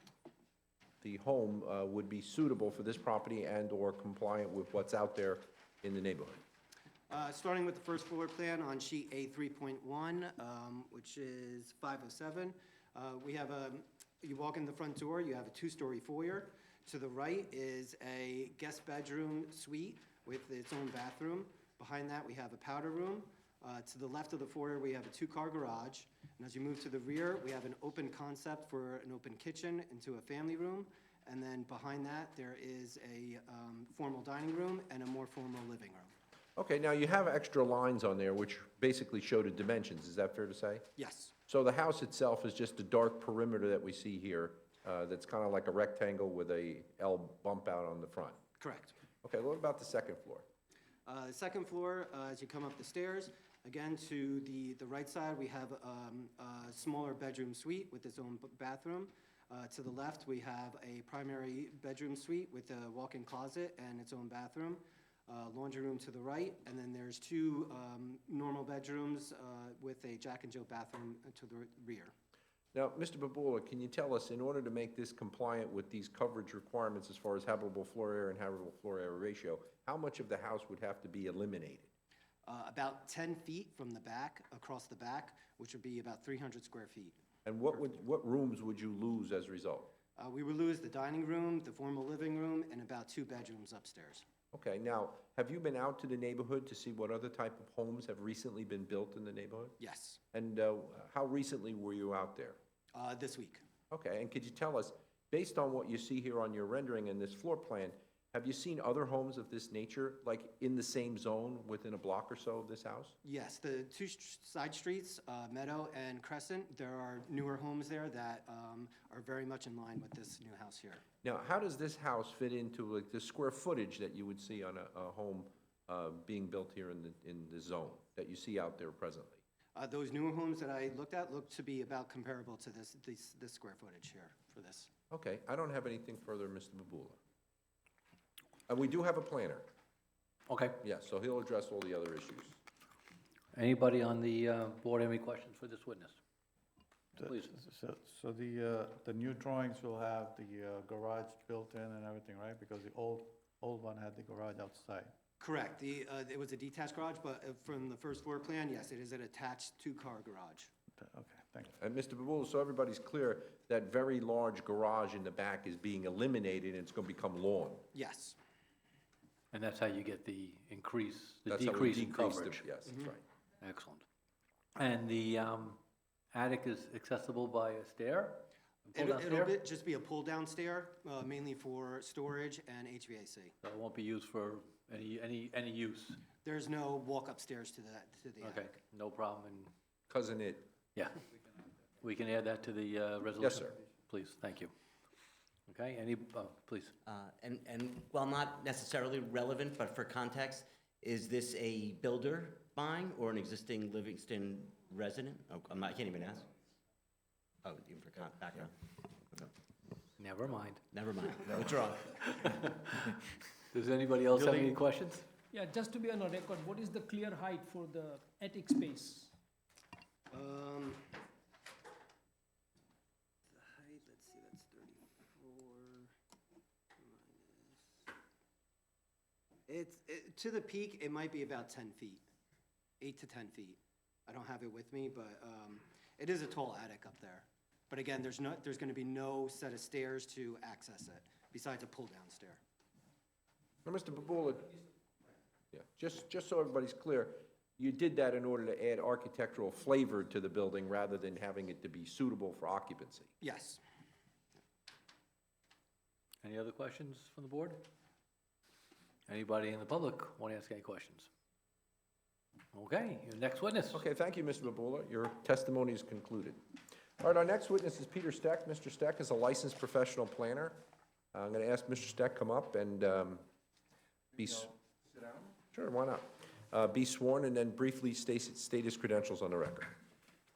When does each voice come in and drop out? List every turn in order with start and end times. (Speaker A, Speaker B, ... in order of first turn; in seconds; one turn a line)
Speaker A: 1.0-6.4
Speaker B: 7.1-36.1
Speaker A: 36.6-40.9
Speaker B: 41.0-41.3
Speaker A: 41.5-48.4
Speaker B: 48.6-48.9
Speaker A: 49.2-50.5
Speaker B: 51.1-72.1
Speaker A: 72.7-81.9
Speaker B: 82.5-87.2
Speaker A: 87.5-89.9
Speaker B: 90.2-94.2
Speaker A: 94.5-99.8
Speaker B: 99.8-100.2
Speaker A: 100.3-102.6
Speaker B: 102.9-103.6
Speaker A: 103.9-113.2
Speaker B: 113.2-121.0
Speaker A: 121.2-129.4
Speaker B: 129.8-134.9
Speaker A: 135.1-137.2
Speaker A: 138.7-139.7
Speaker C: 140.5-140.8
Speaker A: 140.8-142.6
Speaker C: 143.5-146.2
Speaker D: 147.2-155.1
Speaker C: 147.2-147.6
Speaker B: 155.4-160.7
Speaker D: 161.0-161.7
Speaker A: 161.8-167.8
Speaker B: 167.9-168.4
Speaker C: 169.5-172.6
Speaker A: 171.5-173.2
Speaker C: 173.6-174.1
Speaker C: 174.8-175.8
Speaker C: 176.3-179.5
Speaker B: 178.9-183.5
Speaker C: 183.6-186.2
Speaker B: 186.4-188.8
Speaker C: 188.4-189.7
Speaker A: 190.1-190.7
Speaker C: 190.9-191.2
Speaker C: 192.0-194.7
Speaker A: 193.4-193.8
Speaker C: 195.7-196.9
Speaker E: 197.1-206.5
Speaker E: 207.6-208.7
Speaker C: 210.2-210.8
Speaker E: 210.9-212.1
Speaker C: 212.2-212.9
Speaker C: 213.7-215.3
Speaker F: 215.5-219.3
Speaker B: 220.3-221.2
Speaker B: 223.5-226.1
Speaker B: 227.0-227.7
Speaker B: 229.7-232.2
Speaker B: 233.0-242.6
Speaker A: 243.8-244.8
Speaker A: 245.7-253.3
Speaker B: 253.4-253.8
Speaker C: 256.4-257.9
Speaker C: 259.3-261.3
Speaker C: 262.7-264.0
Speaker A: 263.9-266.6
Speaker A: 267.2-270.8
Speaker A: 271.3-273.4
Speaker A: 274.4-274.7
Speaker A: 275.7-279.9